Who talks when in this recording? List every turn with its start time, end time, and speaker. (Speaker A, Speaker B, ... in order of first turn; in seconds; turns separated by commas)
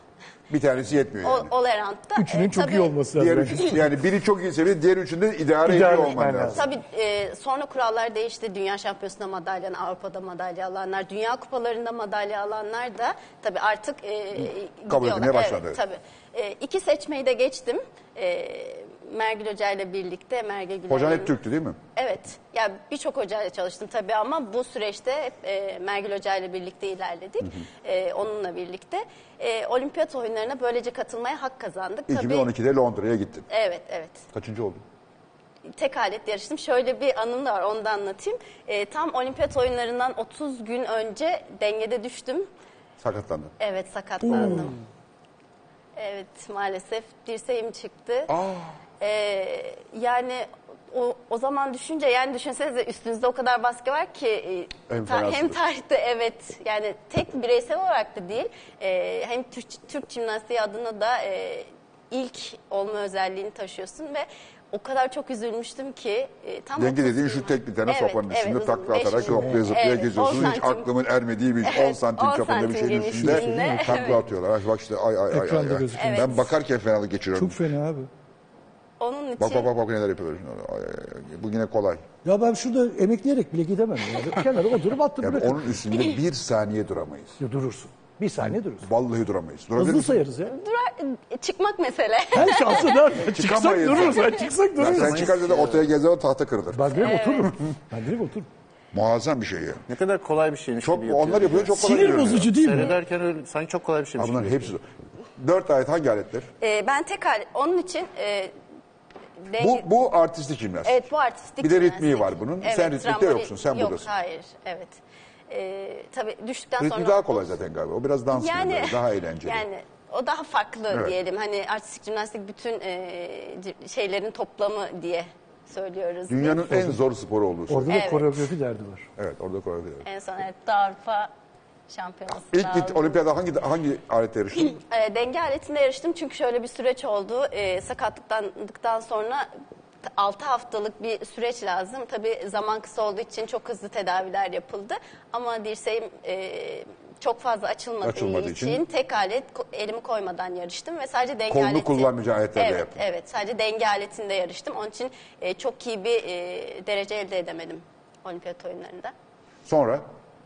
Speaker A: 0.5-1.5, Speaker B: 1.2-2.9, Speaker C: 2.1-3.8, Speaker A: 3.2-6.7, Speaker C: 5.6-6.6, Speaker B: 6.5-21.4, Speaker A: 14.9-15.8, Speaker A: 20.9-21.8, Speaker B: 21.9-32.5, Speaker A: 32.1-33.5, Speaker B: 33.5-34.2, Speaker A: 34.3-34.8, Speaker B: 35.7-42.5, Speaker A: 43.0-43.5, Speaker B: 43.6-44.7, Speaker A: 44.2-44.7, Speaker B: 46.0-48.3, Speaker A: 48.3-48.8, Speaker B: 49.0-70.9, Speaker A: 54.9-55.6, Speaker A: 66.8-77.6, Speaker C: 69.3-69.6, Speaker B: 71.6-74.2, Speaker C: 73.2-74.2, Speaker C: 75.3-76.5, Speaker B: 75.9-76.3, Speaker C: 77.3-78.1, Speaker B: 79.0-79.7, Speaker A: 79.4-82.0, Speaker C: 82.2-85.7, Speaker A: 85.2-87.4, Speaker C: 87.4-88.9, Speaker A: 88.8-90.2, Speaker C: 89.8-90.5, Speaker B: 90.5-93.0, Speaker C: 92.3-95.3, Speaker A: 93.2-97.2, Speaker D: 94.8-95.9, Speaker C: 96.7-98.5, Speaker B: 97.0-97.5, Speaker A: 98.9-99.8, Speaker D: 99.9-104.7, Speaker A: 100.8-102.5, Speaker C: 101.8-103.0, Speaker A: 104.2-106.5, Speaker B: 106.6-108.5, Speaker B: 109.4-109.9, Speaker A: 109.6-111.0, Speaker B: 110.8-117.4, Speaker A: 111.6-114.1, Speaker A: 116.8-119.7, Speaker B: 118.3-126.7, Speaker A: 126.3-128.0, Speaker C: 127.7-129.1, Speaker B: 127.9-128.3, Speaker A: 129.2-130.1, Speaker B: 130.0-131.3, Speaker B: 131.9-133.2, Speaker A: 132.3-134.8, Speaker B: 134.7-139.5, Speaker B: 140.1-159.1, Speaker A: 148.0-148.8, Speaker A: 151.5-153.0, Speaker A: 159.6-160.0